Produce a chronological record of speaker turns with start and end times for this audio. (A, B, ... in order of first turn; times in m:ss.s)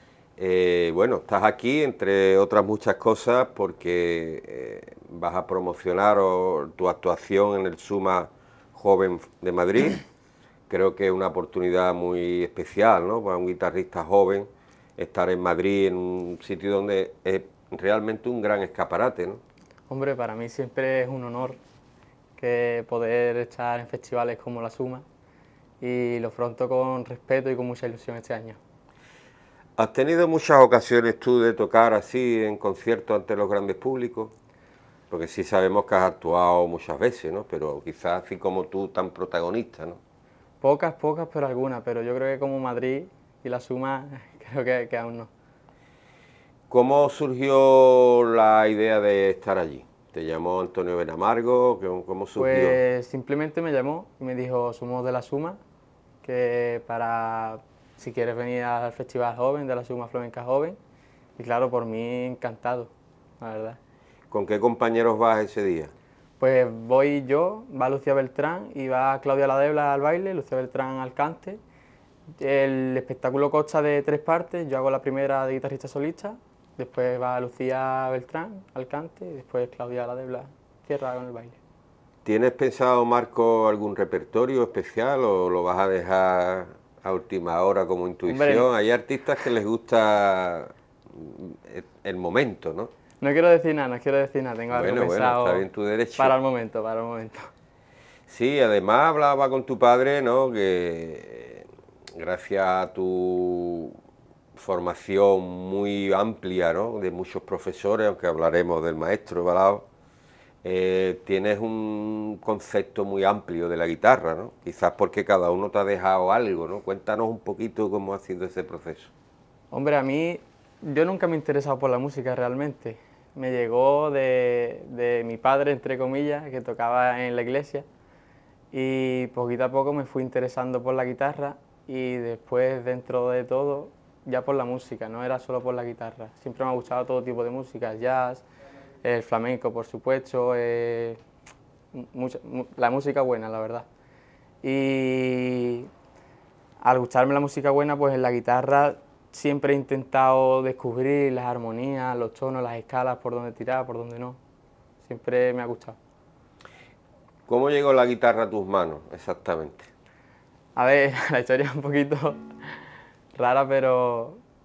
0:00.4-0:10.0 A
0:10.7-0:19.4 A
0:19.9-0:21.6 B
0:22.4-0:25.0 B
0:25.8-0:28.6 B
0:29.8-0:34.3 A
0:35.1-0:40.0 A
0:40.6-0:45.3 B
0:46.7-0:52.8 A
0:52.4-0:55.6 B
0:56.2-1:00.8 B
1:01.4-1:03.8 B
1:04.3-1:05.9 A
1:06.4-1:11.6 B
1:12.4-1:21.6 B
1:22.2-1:32.9 A
1:28.2-1:28.7 B
1:33.2-1:37.5 B
1:34.7-1:36.4 A
1:38.3-1:44.0 A
1:44.5-1:49.8 A
1:50.6-1:59.1 A
1:59.7-2:07.8 B
2:08.7-2:18.4 B
2:19.0-2:21.2 B
2:21.9-2:23.8 B
2:24.6-2:25.9 B
2:26.8-2:34.4 B
2:35.0-2:36.0 B
2:37.5-2:39.9 A
2:40.8-2:42.8 B
2:43.3-2:44.4 B